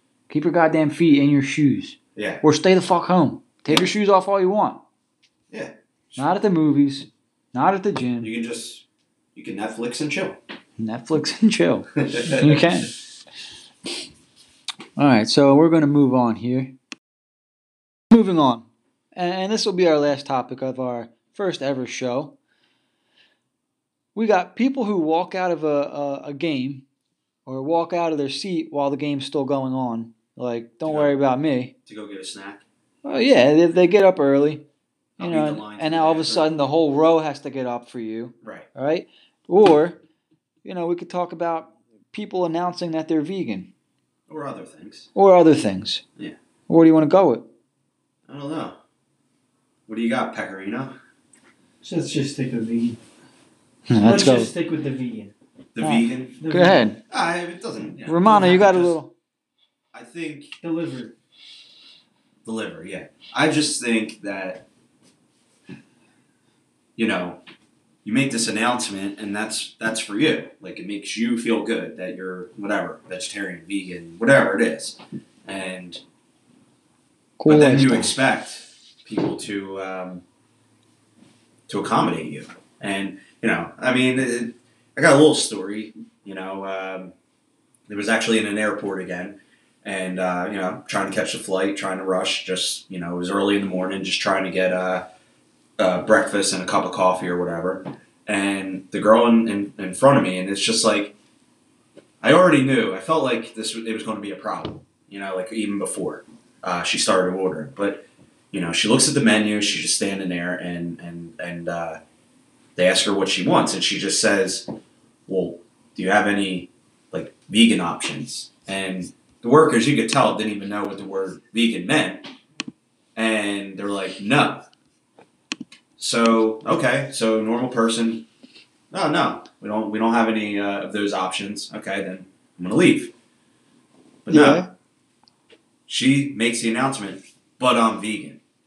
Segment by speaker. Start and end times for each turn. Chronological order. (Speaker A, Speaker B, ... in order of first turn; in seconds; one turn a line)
Speaker A: 0.3-4.8
Speaker B: 2.2-2.4
Speaker B: 5.5-6.2
Speaker A: 6.2-8.3
Speaker B: 8.2-10.4
Speaker A: 10.8-12.9
Speaker B: 12.0-12.7
Speaker A: 15.0-16.8
Speaker A: 18.1-22.4
Speaker A: 24.1-26.9
Speaker A: 27.5-31.7
Speaker B: 30.9-31.1
Speaker B: 31.9-32.6
Speaker A: 33.0-34.6
Speaker A: 35.2-40.0
Speaker B: 35.2-36.5
Speaker B: 38.4-38.7
Speaker A: 40.6-43.7
Speaker B: 44.3-45.1
Speaker A: 45.1-46.0
Speaker A: 46.7-47.5
Speaker B: 48.3-48.8
Speaker B: 49.9-51.0
Speaker C: 51.8-53.0
Speaker A: 53.9-54.5
Speaker C: 54.0-55.3
Speaker B: 55.8-56.4
Speaker A: 55.8-57.0
Speaker C: 56.4-56.8
Speaker B: 57.1-59.0
Speaker A: 58.1-59.1
Speaker B: 59.9-60.5
Speaker C: 60.6-61.1
Speaker B: 62.5-64.7
Speaker B: 67.0-67.4
Speaker B: 68.0-76.0
Speaker A: 77.4-78.2
Speaker B: 77.5-80.2
Speaker B: 81.7-87.1
Speaker B: 87.9-95.1
Speaker B: 95.8-101.2
Speaker B: 102.2-112.0
Speaker B: 112.8-114.7
Speaker B: 115.3-122.3
Speaker B: 123.2-124.7
Speaker B: 126.0-128.3
Speaker B: 128.9-133.1
Speaker B: 134.2-134.7
Speaker A: 134.3-134.7
Speaker B: 135.9-138.4